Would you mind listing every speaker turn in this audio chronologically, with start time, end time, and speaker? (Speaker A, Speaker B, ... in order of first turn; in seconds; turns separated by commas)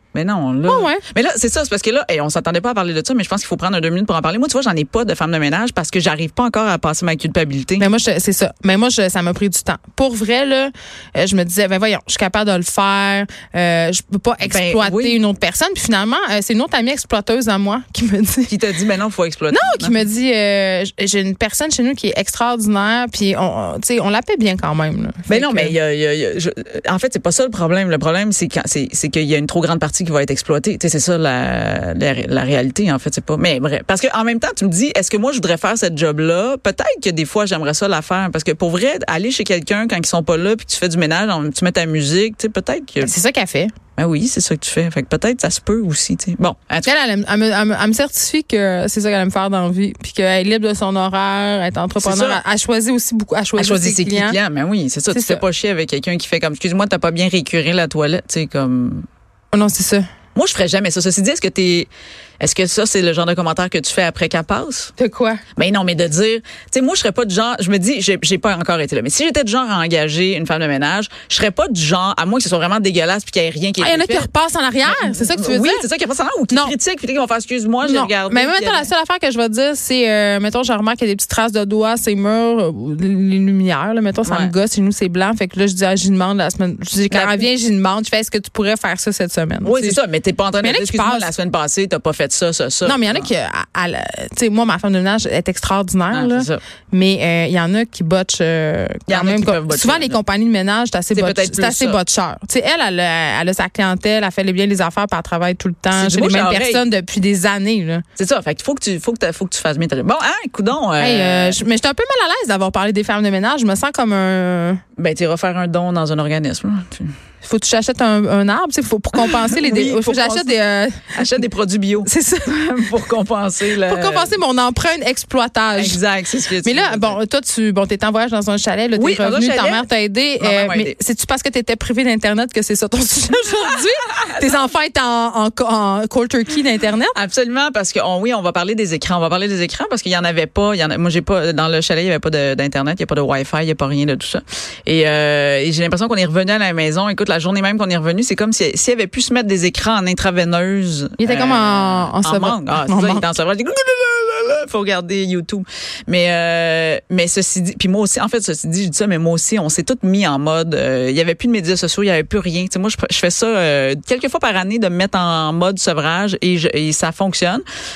Speaker A: 0.1-7.8, Speaker B: 0.7-1.0, Speaker B: 7.8-18.5, Speaker A: 14.4-15.2, Speaker A: 18.5-20.0, Speaker B: 19.5-25.7, Speaker A: 25.3-43.1, Speaker B: 43.0-43.7, Speaker A: 44.0-46.9, Speaker B: 46.8-54.4, Speaker A: 52.0-52.4, Speaker A: 53.5-59.1, Speaker B: 55.1-55.4, Speaker B: 59.5-60.1, Speaker A: 60.3-64.9, Speaker B: 65.0-65.4, Speaker A: 65.5-74.3, Speaker B: 73.8-75.8, Speaker A: 74.8-78.9, Speaker B: 77.8-90.0, Speaker A: 84.2-84.5, Speaker A: 87.1-87.5, Speaker A: 89.6-93.3, Speaker B: 90.6-91.3, Speaker B: 92.8-108.0, Speaker A: 96.1-96.6, Speaker A: 99.1-100.2, Speaker A: 101.1-102.0, Speaker A: 105.9-106.8, Speaker A: 108.2-111.6, Speaker B: 111.0-114.8, Speaker A: 115.0-117.2, Speaker B: 117.4-121.1, Speaker A: 119.2-120.5, Speaker A: 121.1-124.3, Speaker B: 122.0-122.5, Speaker B: 123.8-126.0, Speaker A: 125.8-127.2, Speaker B: 126.6-137.2, Speaker A: 128.9-129.9, Speaker A: 130.4-130.9, Speaker A: 137.1-167.6, Speaker B: 151.2-153.3